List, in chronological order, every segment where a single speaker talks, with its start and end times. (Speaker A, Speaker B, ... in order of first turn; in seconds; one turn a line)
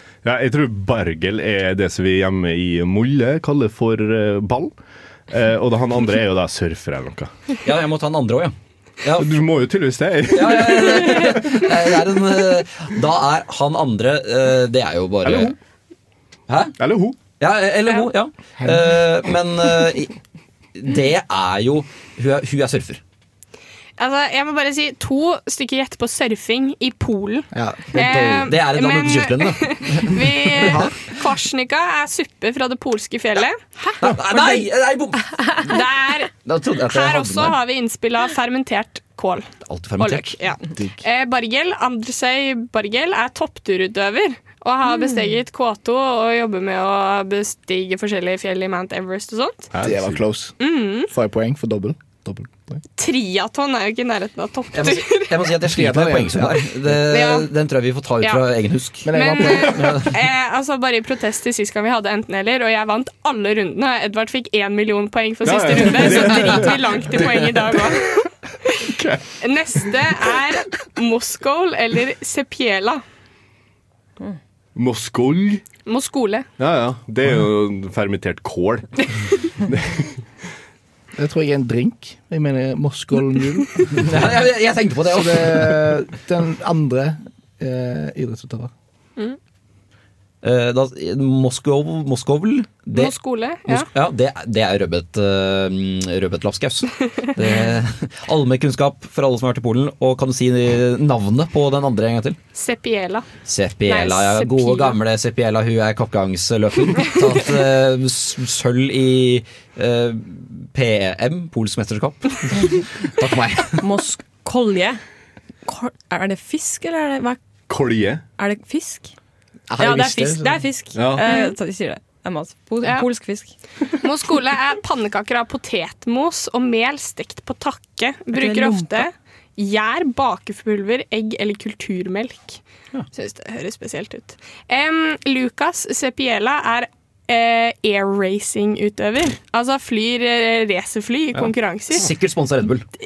Speaker A: 0.2-4.7
Speaker A: 5.3-7.3
Speaker B: 7.6-9.3
Speaker A: 9.2-11.7
Speaker B: 10.3-15.6
Speaker A: 15.2-15.5
Speaker B: 16.5-16.8
Speaker A: 16.8-17.2
Speaker B: 17.3-20.1
Speaker C: 18.6-18.9
Speaker B: 20.7-23.0
Speaker D: 24.0-33.7
Speaker C: 27.5-28.5
Speaker B: 28.3-30.9
Speaker C: 30.6-30.9
Speaker B: 34.0-35.8
Speaker D: 34.3-34.6
Speaker D: 35.6-39.5
Speaker B: 36.4-37.6
Speaker B: 39.7-40.4
Speaker D: 40.0-49.7
Speaker C: 40.7-41.0
Speaker A: 49.7-50.2
Speaker C: 49.8-50.6
Speaker D: 50.6-51.1
Speaker C: 51.1-52.8
Speaker D: 53.0-55.5
Speaker B: 54.7-60.1
Speaker C: 55.6-56.7
Speaker D: 57.0-57.5
Speaker C: 59.0-60.0
Speaker D: 59.1-68.9
Speaker A: 65.4-67.8
Speaker A: 68.8-69.3
Speaker D: 69.4-73.0
Speaker A: 74.8-75.6
Speaker D: 75.8-76.5
Speaker A: 76.6-79.0
Speaker A: 79.6-80.1
Speaker C: 81.2-84.1
Speaker B: 84.0-85.9
Speaker C: 85.1-88.7
Speaker B: 90.4-93.1
Speaker D: 92.9-93.9
Speaker B: 93.7-102.4
Speaker D: 102.5-103.2
Speaker B: 103.5-113.8
Speaker D: 103.8-104.9
Speaker E: 113.8-115.0
Speaker E: 115.6-117.4
Speaker A: 117.7-118.2
Speaker E: 118.4-119.1
Speaker C: 119.7-120.6
Speaker E: 119.8-123.5
Speaker A: 120.9-121.2
Speaker D: 121.2-121.6
Speaker D: 122.8-123.1
Speaker D: 124.0-132.6
Speaker E: 128.3-129.1
Speaker D: 133.1-142.1
Speaker B: 141.3-142.8